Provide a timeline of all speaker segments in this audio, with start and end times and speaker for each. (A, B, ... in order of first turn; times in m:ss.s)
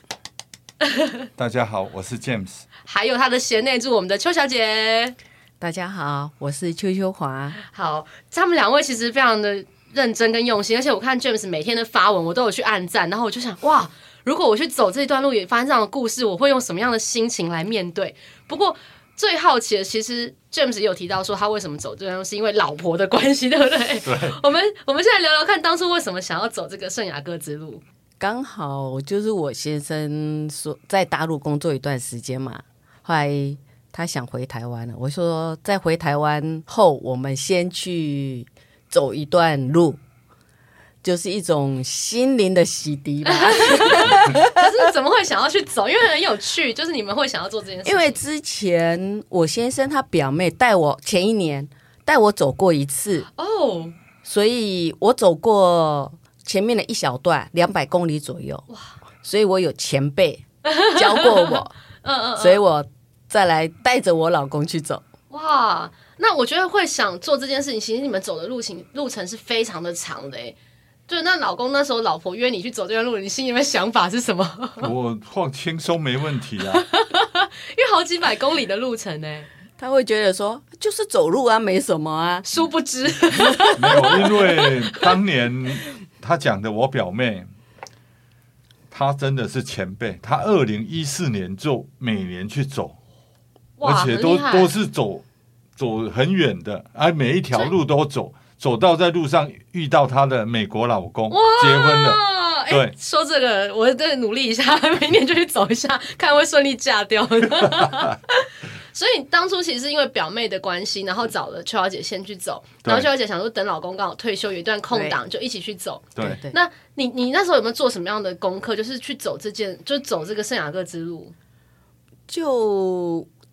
0:00.8-0:01.2 A
0:01.4-0:02.6 B
0:02.8-0:05.1 A
0:05.6-0:07.6 C
0:07.6-0:27.8 A
0:24.0-0:24.4 B
0:28.2-0:40.0 C
0:41.0-0:44.5 C
0:43.2-0:48.2 A
0:47.8-0:53.3 C
0:53.3-0:54.0 A
0:54.2-0:58.7 C
0:58.7-0:59.0 A
0:59.2-1:01.7 C
1:00.6-1:02.6 A
1:02.4-1:05.0 C
1:05.3-1:10.6 A
1:11.1-1:14.9 A
1:14.8-1:16.8 B
1:16.6-1:19.5 A
1:19.8-1:22.5 C
1:22.4-1:25.1 A
1:23.4-1:24.2 C
1:23.7-1:27.5 B
1:28.9-1:33.0 B
1:33.8-1:34.7 A
1:33.8-1:35.2 B
1:35.8-1:42.9 B
1:41.3-1:48.4 A
1:48.9-2:01.3 A
1:52.8-1:53.1 B
1:54.9-1:55.2 C
1:56.1-1:56.4 B
1:56.2-1:56.6 C
2:02.3-2:03.3 C